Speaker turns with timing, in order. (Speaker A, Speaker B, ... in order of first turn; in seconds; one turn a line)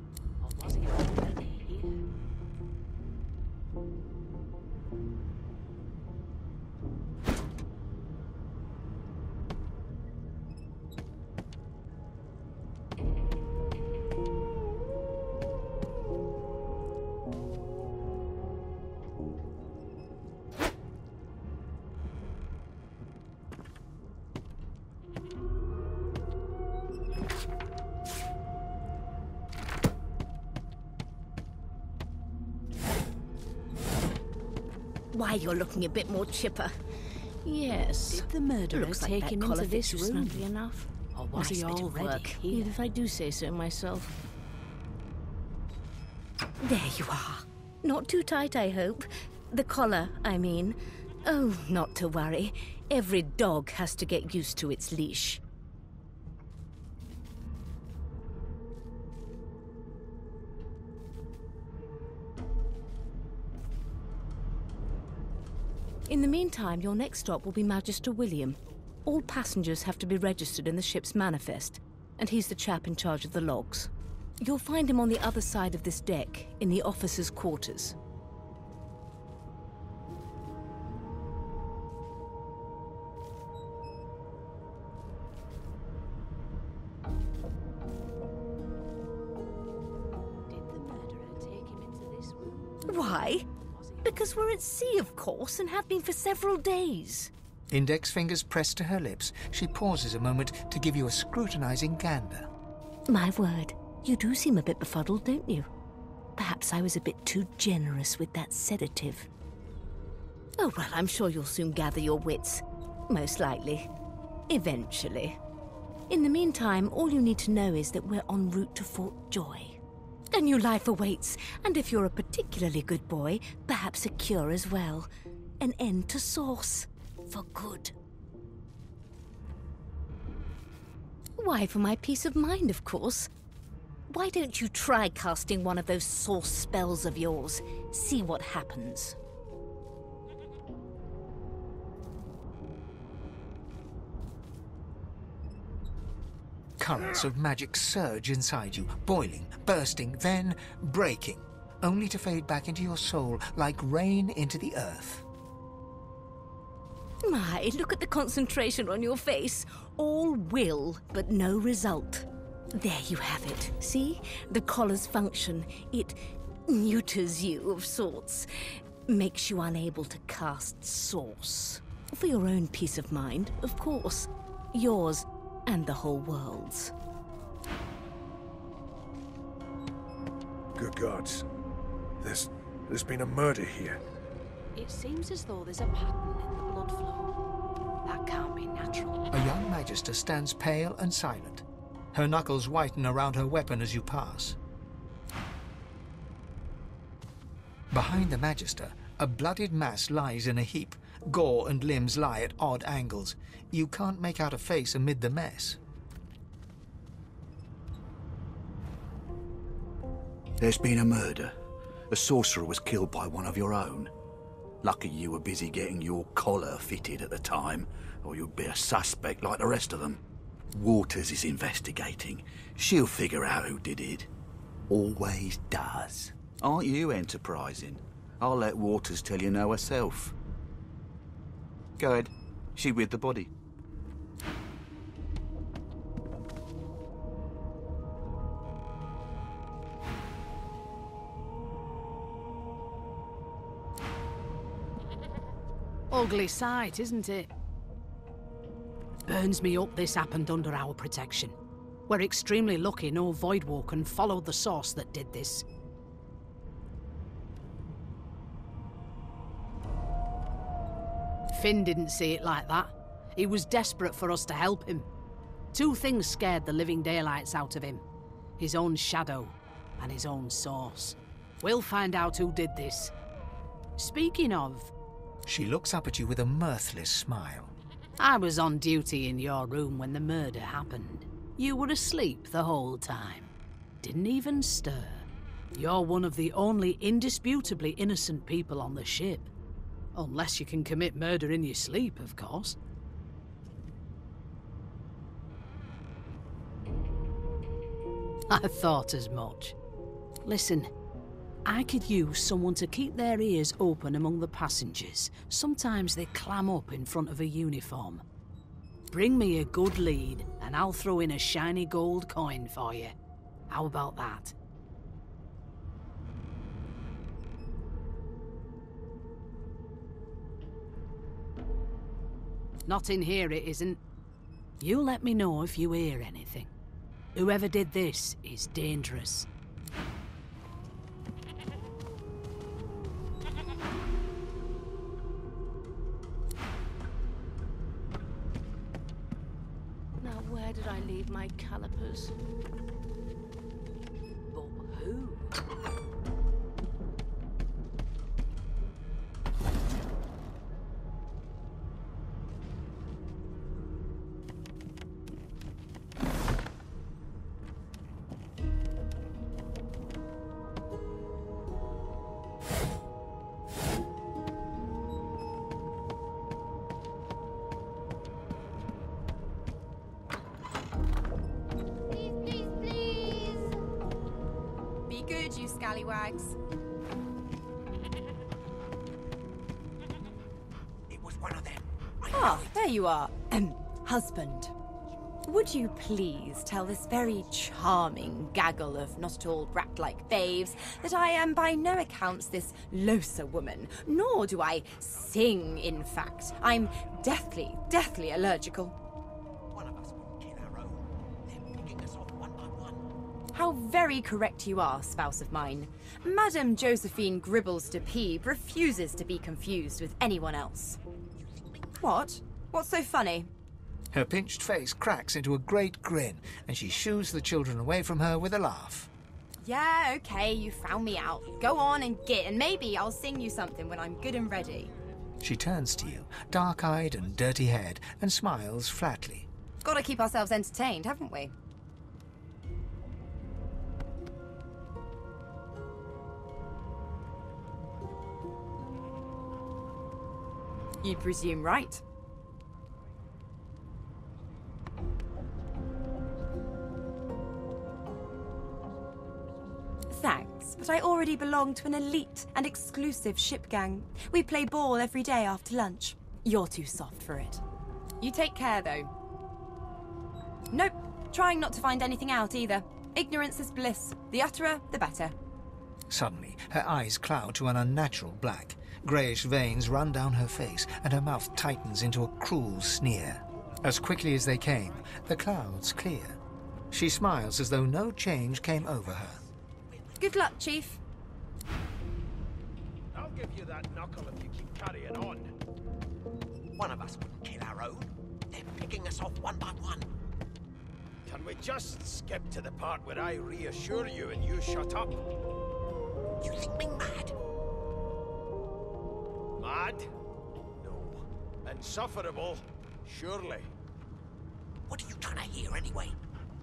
Speaker A: 0.4-2.1
Speaker B: 35.1-36.7
Speaker B: 37.4-44.1
Speaker A: 38.1-40.5
Speaker A: 41.1-42.7
Speaker B: 46.6-55.4
Speaker B: 66.1-78.0
Speaker A: 90.5-94.4
Speaker B: 92.9-93.4
Speaker B: 94.0-97.3
Speaker C: 97.7-102.5
Speaker B: 103.1-105.7
Speaker B: 106.3-109.3
Speaker B: 110.6-113.9
Speaker B: 114.5-115.4
Speaker B: 116.1-119.8
Speaker B: 120.3-125.1
Speaker B: 125.6-127.9
Speaker B: 131.4-133.3
Speaker B: 134.1-139.2
Speaker C: 146.8-155.2
Speaker B: 157.2-168.5
Speaker B: 169.1-176.9
Speaker D: 180.8-181.4
Speaker D: 182.2-184.0
Speaker A: 184.8-187.3
Speaker A: 188.0-189.2
Speaker C: 189.3-194.6
Speaker C: 197.9-205.8
Speaker E: 210.6-211.5
Speaker E: 212.1-214.1
Speaker E: 214.8-220.2
Speaker E: 220.7-224.3
Speaker E: 224.9-230.3
Speaker E: 232.0-233.5
Speaker A: 246.1-247.5
Speaker A: 249.3-251.6
Speaker A: 252.1-255.6
Speaker A: 261.5-265.1
Speaker A: 265.7-268.0
Speaker A: 268.6-273.1
Speaker A: 274.0-274.9
Speaker C: 275.4-277.7
Speaker A: 278.2-283.5
Speaker A: 284.0-289.5
Speaker A: 290.1-292.8
Speaker A: 298.5-299.7
Speaker A: 300.4-300.9
Speaker A: 301.6-308.2
Speaker A: 309.1-313.1
Speaker A: 313.7-314.5
Speaker A: 322.9-324.0
Speaker A: 324.8-326.7
Speaker A: 327.3-329.5
Speaker B: 340.2-342.3
Speaker A: 344.5-345.5
Speaker F: 375.1-376.6
Speaker G: 381.1-382.7
Speaker F: 382.3-384.7
Speaker F: 385.4-398.9
Speaker G: 399.7-403.0
Speaker F: 403.5-411.0
Speaker G: 411.6-411.9
Speaker F: 412.0-413.5
Speaker C: 414.1-419.1
Speaker F: 419.6-424.9
Speaker C: 425.4-429.5
Speaker F: 429.8-431.5
Speaker F: 441.0-442.0
Speaker F: 450.1-457.6
Speaker F: 458.2-459.1
Speaker F: 460.7-465.3
Speaker C: 466.1-476.4
Speaker C: 476.9-479.4
Speaker F: 480.2-481.0
Speaker H: 483.1-485.5
Speaker G: 486.8-490.1
Speaker H: 491.2-495.2
Speaker G: 496.4-497.3
Speaker H: 499.6-500.1
Speaker H: 500.8-503.7
Speaker G: 504.9-506.1